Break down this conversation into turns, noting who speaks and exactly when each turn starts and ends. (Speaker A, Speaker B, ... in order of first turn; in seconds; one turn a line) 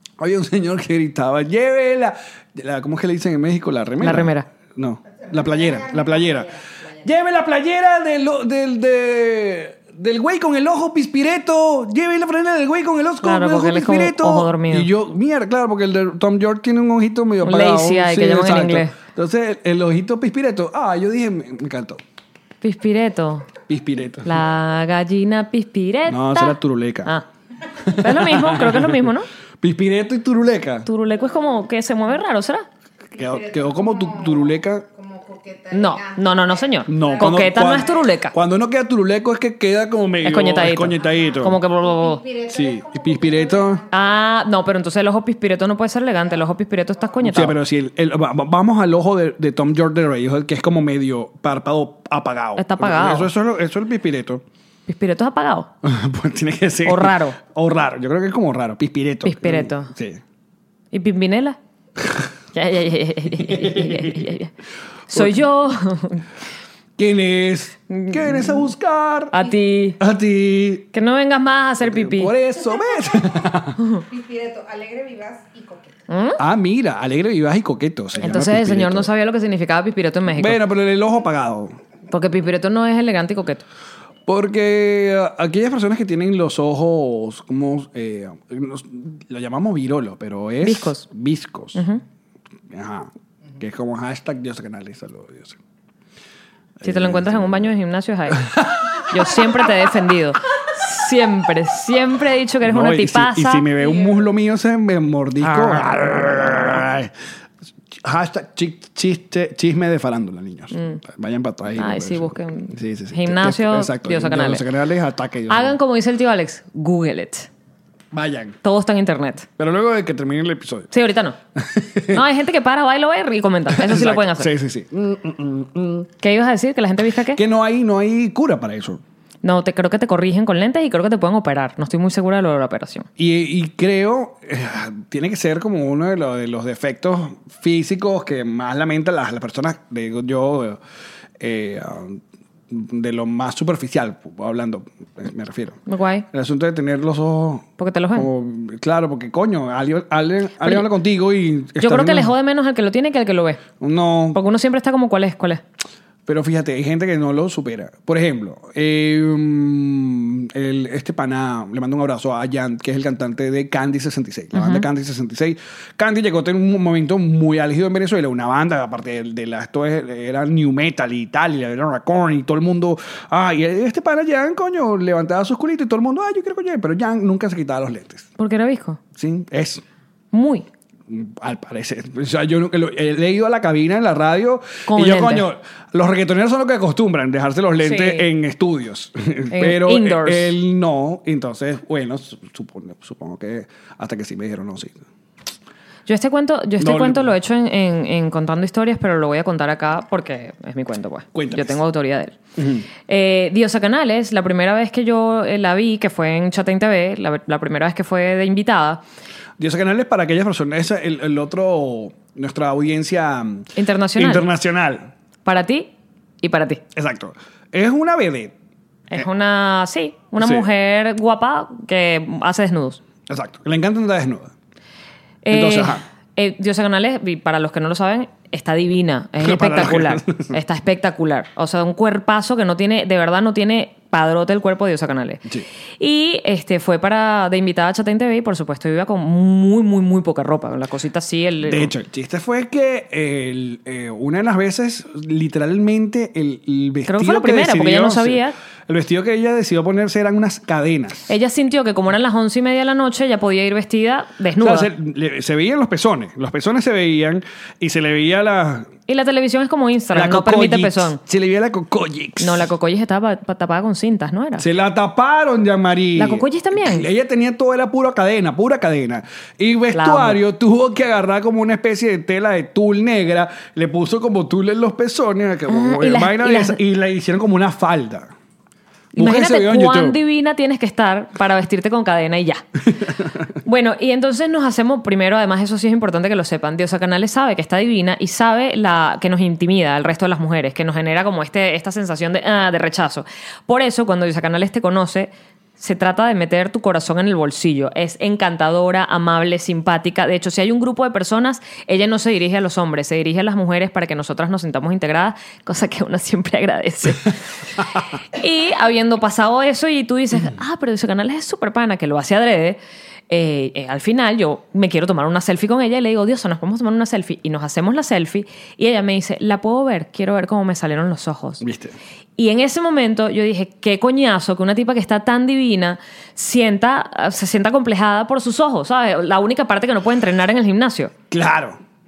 Speaker A: 0.2-22.0
Speaker B: 4.0-4.5
Speaker C: 5.2-6.6
Speaker B: 13.2-14.9
Speaker B: 17.4-18.9
Speaker B: 22.6-23.5
Speaker A: 23.7-24.3
Speaker B: 24.2-27.2
Speaker A: 26.1-27.1
Speaker A: 27.8-29.1
Speaker B: 27.9-29.3
Speaker A: 29.6-30.9
Speaker B: 30.9-32.6
Speaker A: 33.1-34.9
Speaker C: 33.1-38.0
Speaker B: 35.7-38.3
Speaker A: 36.9-41.6
Speaker B: 40.2-42.2
Speaker C: 41.0-44.0
Speaker A: 42.5-43.8
Speaker B: 43.9-47.6
Speaker A: 47.2-54.4
Speaker B: 52.5-53.3
Speaker B: 54.9-55.7
Speaker A: 55.8-60.2
Speaker B: 56.8-57.4
Speaker B: 59.2-59.9
Speaker B: 60.9-61.6
Speaker A: 62.0-62.3
Speaker B: 62.5-64.5
Speaker A: 63.4-64.3
Speaker B: 65.1-66.2
Speaker A: 65.1-65.4
Speaker A: 67.0-69.5
Speaker B: 67.9-68.7
Speaker B: 69.3-70.0
Speaker A: 70.0-70.9
Speaker B: 70.9-72.3
Speaker A: 71.8-73.8
Speaker C: 72.7-73.2
Speaker C: 74.0-76.0
Speaker B: 76.1-76.4
Speaker A: 76.4-79.1
Speaker B: 78.2-80.6
Speaker A: 80.3-81.8
Speaker B: 82.1-83.6
Speaker A: 84.3-91.8
Speaker B: 90.6-91.0
Speaker B: 91.7-92.0
Speaker A: 92.7-95.6
Speaker A: 96.8-97.7
Speaker B: 96.8-103.7
Speaker A: 98.4-99.5
Speaker A: 102.6-107.1
Speaker B: 105.4-106.7
Speaker A: 107.9-115.8
Speaker B: 110.7-111.0
Speaker B: 111.8-114.6
Speaker B: 115.5-117.5
Speaker A: 118.1-118.6
Speaker B: 118.6-119.5
Speaker A: 119.6-120.9
Speaker B: 120.9-121.4
Speaker A: 121.5-122.2
Speaker B: 122.1-124.5
Speaker A: 123.7-126.1
Speaker B: 126.2-127.4
Speaker A: 127.3-129.0
Speaker B: 129.4-133.1
Speaker A: 133.2-140.8
Speaker A: 141.4-152.3
Speaker B: 145.9-146.2
Speaker B: 147.8-148.3
Speaker B: 151.8-153.6
Speaker A: 153.8-154.4
Speaker B: 154.3-155.6
Speaker A: 156.2-178.3
Speaker B: 164.5-164.8
Speaker B: 178.4-179.0
Speaker A: 179.1-179.8
Speaker B: 180.3-180.7
Speaker A: 181.1-195.0
Speaker B: 184.9-185.4
Speaker B: 187.8-188.3
Speaker B: 189.5-190.5
Speaker B: 196.1-202.4
Speaker A: 196.8-197.3
Speaker A: 201.3-201.8
Speaker A: 202.6-202.8
Speaker B: 203.1-209.0
Speaker A: 209.6-215.1
Speaker B: 213.8-214.5
Speaker B: 215.4-215.9
Speaker B: 216.4-216.8
Speaker A: 216.9-218.5
Speaker B: 219.1-223.0
Speaker A: 220.4-220.7
Speaker A: 223.3-224.5
Speaker B: 225.4-235.4
Speaker A: 225.5-226.0
Speaker A: 229.4-230.6
Speaker B: 236.0-241.9
Speaker A: 241.6-251.3
Speaker B: 247.1-248.5
Speaker B: 251.3-254.9
Speaker A: 254.6-258.9
Speaker B: 259.1-261.2
Speaker A: 260.1-262.7
Speaker B: 262.4-264.6
Speaker A: 264.6-278.3
Speaker B: 266.1-267.1
Speaker B: 269.9-270.4
Speaker B: 275.7-276.8
Speaker B: 279.1-282.6
Speaker A: 279.1-280.2
Speaker A: 282.9-283.4
Speaker B: 283.6-312.8
Speaker B: 313.3-321.6
Speaker A: 321.6-321.9
Speaker B: 322.4-331.1
Speaker A: 331.3-331.8